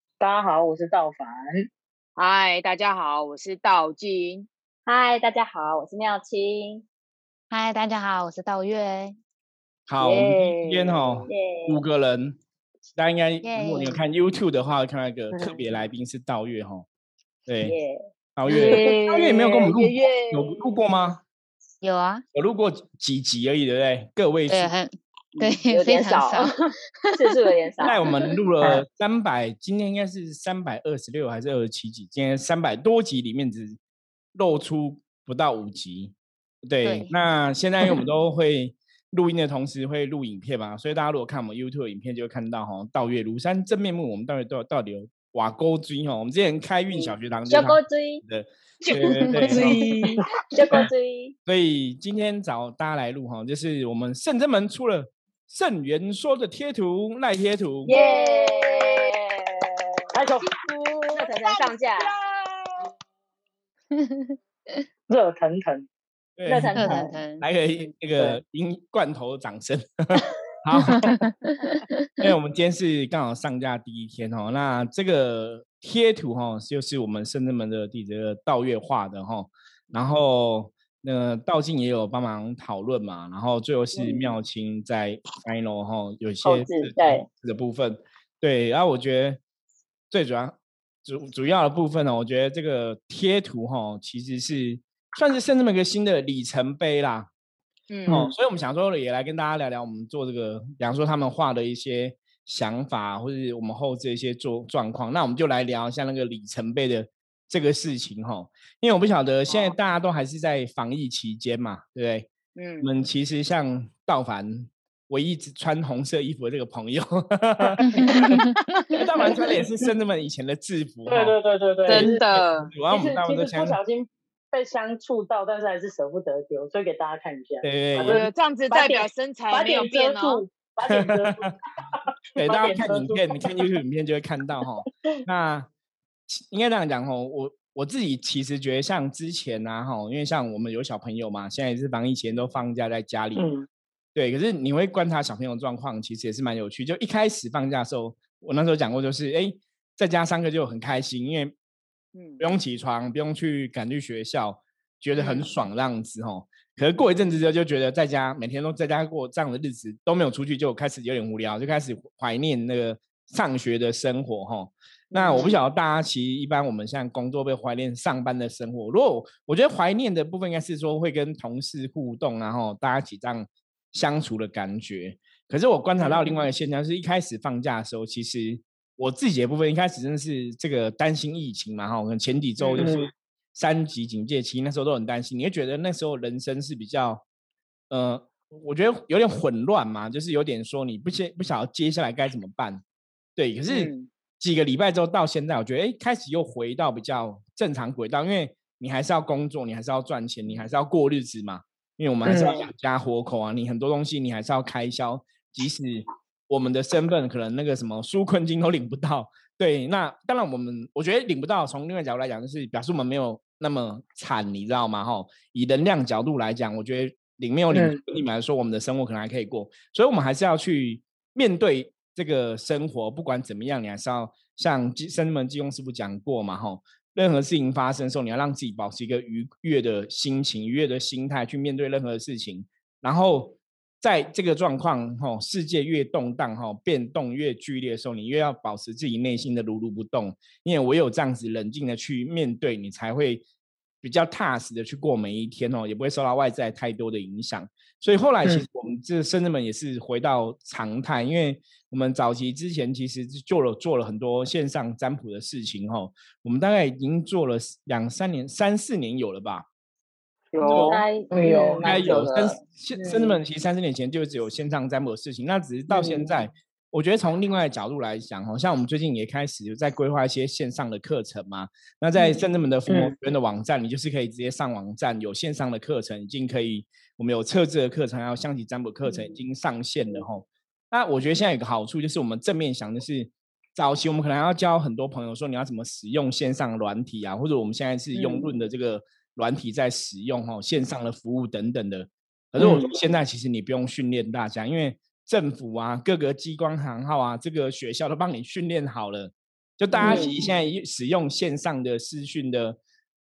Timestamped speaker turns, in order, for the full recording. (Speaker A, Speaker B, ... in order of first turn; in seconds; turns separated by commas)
Speaker A: 0.2-1.7, Speaker B: 2.1-4.5, Speaker C: 4.9-6.8, Speaker D: 7.5-9.2, Speaker E: 9.9-12.4, Speaker C: 10.0-11.8, Speaker E: 12.9-16.9, Speaker D: 13.4-14.0, Speaker E: 17.5-17.8, Speaker C: 17.6-20.7, Speaker E: 18.4-21.2, Speaker B: 18.5-18.9, Speaker D: 21.8-22.2, Speaker E: 22.3-24.7, Speaker D: 24.5-26.6, Speaker C: 25.3-28.1, Speaker E: 27.8-33.8, Speaker E: 34.3-49.8, Speaker D: 36.8-37.1, Speaker C: 46.9-48.2, Speaker B: 48.8-50.2, Speaker C: 49.3-49.8, Speaker C: 50.5-51.3, Speaker E: 51.5-57.9, Speaker C: 57.9-60.1, Speaker B: 57.9-59.0, Speaker A: 60.1-61.5, Speaker C: 61.1-62.1, Speaker A: 62.4-62.7, Speaker D: 63.9-64.3, Speaker A: 65.1-65.9, Speaker E: 66.4-66.8, Speaker A: 66.5-67.1, Speaker C: 66.5-67.2, Speaker D: 66.8-67.5, Speaker E: 67.4-71.1, Speaker D: 70.9-72.1, Speaker E: 72.2-89.4, Speaker C: 83.9-84.3, Speaker C: 86.4-87.2, Speaker E: 90.1-97.3, Speaker B: 97.9-98.3, Speaker A: 98.1-98.3, Speaker E: 98.1-112.3, Speaker B: 109.5-109.8, Speaker B: 112.5-112.9, Speaker E: 112.8-118.4, Speaker A: 117.6-118.3, Speaker D: 117.8-118.6, Speaker E: 118.9-121.4, Speaker A: 121.1-122.2, Speaker B: 121.9-122.7, Speaker E: 121.9-123.8, Speaker A: 122.9-133.7, Speaker E: 127.6-128.2, Speaker B: 128.1-130.4, Speaker E: 130.8-131.5, Speaker E: 132.3-135.7, Speaker E: 136.3-143.4, Speaker A: 143.3-143.7, Speaker E: 144.1-151.5, Speaker B: 152.1-152.5, Speaker E: 152.4-187.2, Speaker B: 155.2-155.5, Speaker B: 165.1-165.6, Speaker B: 182.6-182.9, Speaker A: 182.8-183.1, Speaker E: 187.9-192.8, Speaker E: 193.3-243.4, Speaker B: 193.7-194.1, Speaker A: 202.2-202.6, Speaker B: 202.3-202.7, Speaker A: 217.7-218.0, Speaker E: 244.0-259.6, Speaker B: 260.5-261.0, Speaker A: 260.6-262.1, Speaker E: 260.6-261.0, Speaker C: 260.8-262.6, Speaker E: 261.8-302.8, Speaker A: 265.9-266.3, Speaker A: 272.9-273.1, Speaker A: 292.6-292.9, Speaker A: 300.0-300.3, Speaker B: 300.0-300.3, Speaker C: 300.0-300.2